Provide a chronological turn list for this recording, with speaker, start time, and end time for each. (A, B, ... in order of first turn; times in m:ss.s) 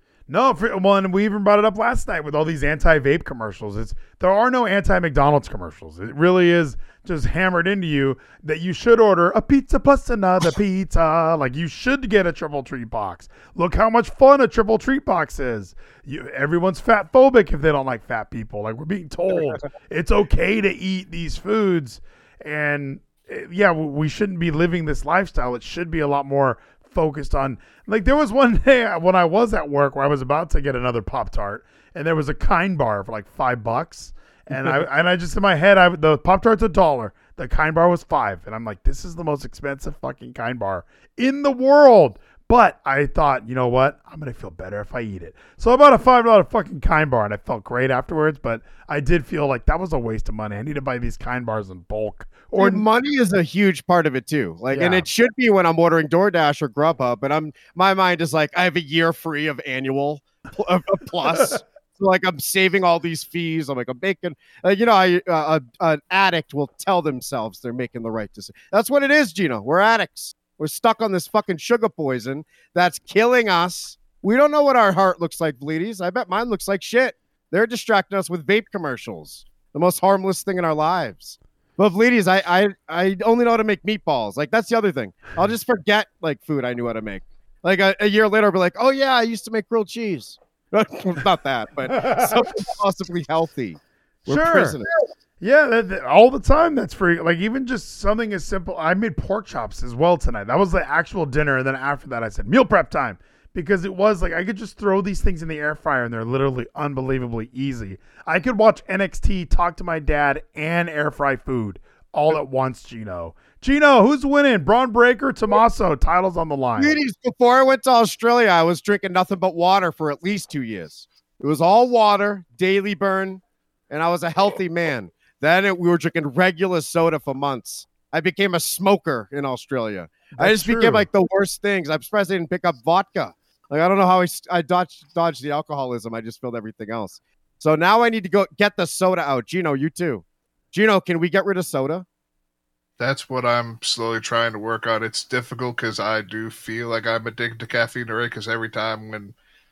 0:00.3-0:52.8 A
0:52.6-1:35.0 B
0:54.7-0:55.1 A
1:31.9-1:32.3 A
1:34.3-1:34.8 A
1:35.4-1:57.0 A
1:56.8-2:22.0 B
2:10.4-2:11.1 A
2:23.0-2:29.4 C